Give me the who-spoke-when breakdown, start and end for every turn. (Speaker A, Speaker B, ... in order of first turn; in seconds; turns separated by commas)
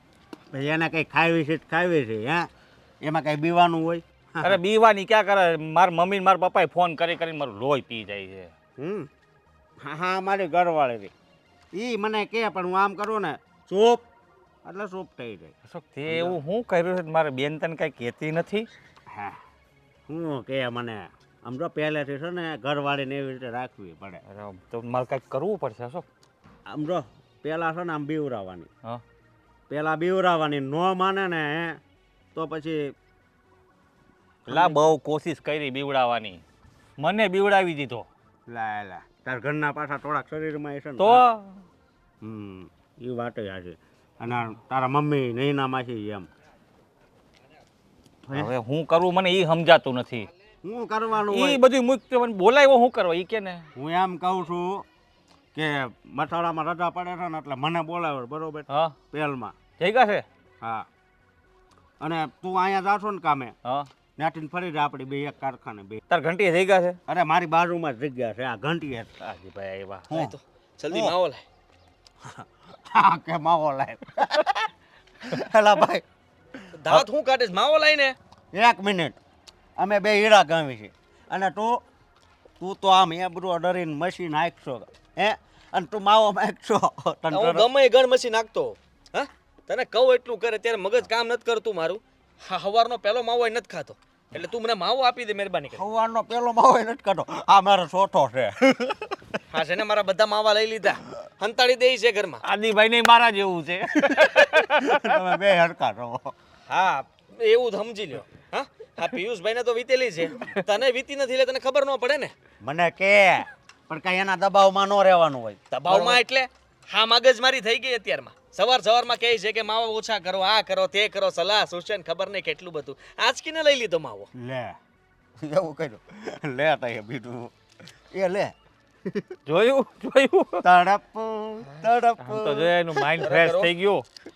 Speaker A: 0.5-2.5, Speaker A: 3.0-4.6, Speaker B: 4.4-8.5, Speaker A: 8.8-9.1, Speaker A: 9.8-11.1, Speaker A: 11.7-14.0, Speaker A: 14.6-15.5, Speaker B: 15.7-18.7, Speaker A: 16.1-16.4, Speaker A: 19.1-19.4, Speaker A: 20.1-24.2, Speaker B: 24.3-26.1, Speaker A: 26.7-28.7, Speaker A: 29.7-31.8, Speaker A: 32.3-32.9, Speaker A: 34.5-34.9, Speaker B: 34.5-36.4, Speaker B: 37.0-38.1, Speaker A: 38.5-41.2, Speaker B: 41.0-41.6, Speaker A: 42.2-46.3, Speaker A: 48.2-48.5, Speaker B: 48.3-50.3, Speaker A: 50.6-51.6, Speaker B: 51.3-53.7, Speaker A: 53.8-54.9, Speaker A: 55.5-59.5, Speaker B: 58.7-58.9, Speaker B: 59.8-60.2, Speaker A: 60.6-60.9, Speaker A: 62.0-63.5, Speaker A: 64.2-66.0, Speaker B: 66.1-67.0, Speaker A: 67.1-69.1, Speaker B: 69.2-70.1, Speaker A: 70.1-70.3, Speaker C: 70.1-71.4, Speaker A: 72.2-74.6, Speaker A: 75.2-76.0, Speaker C: 76.7-78.2, Speaker A: 78.5-79.2, Speaker A: 79.8-81.8, Speaker A: 82.6-87.7, Speaker C: 87.3-95.8, Speaker A: 95.7-99.4, Speaker C: 99.5-102.4, Speaker B: 102.4-105.2, Speaker A: 104.8-106.3, Speaker C: 106.7-112.3, Speaker A: 112.6-116.2, Speaker C: 115.7-124.3, Speaker A: 124.3-124.8, Speaker A: 125.4-127.5, Speaker A: 128.1-128.5, Speaker A: 129.1-129.3, Speaker B: 129.5-130.6, Speaker A: 130.6-133.0, Speaker B: 132.2-134.1, Speaker C: 133.2-133.7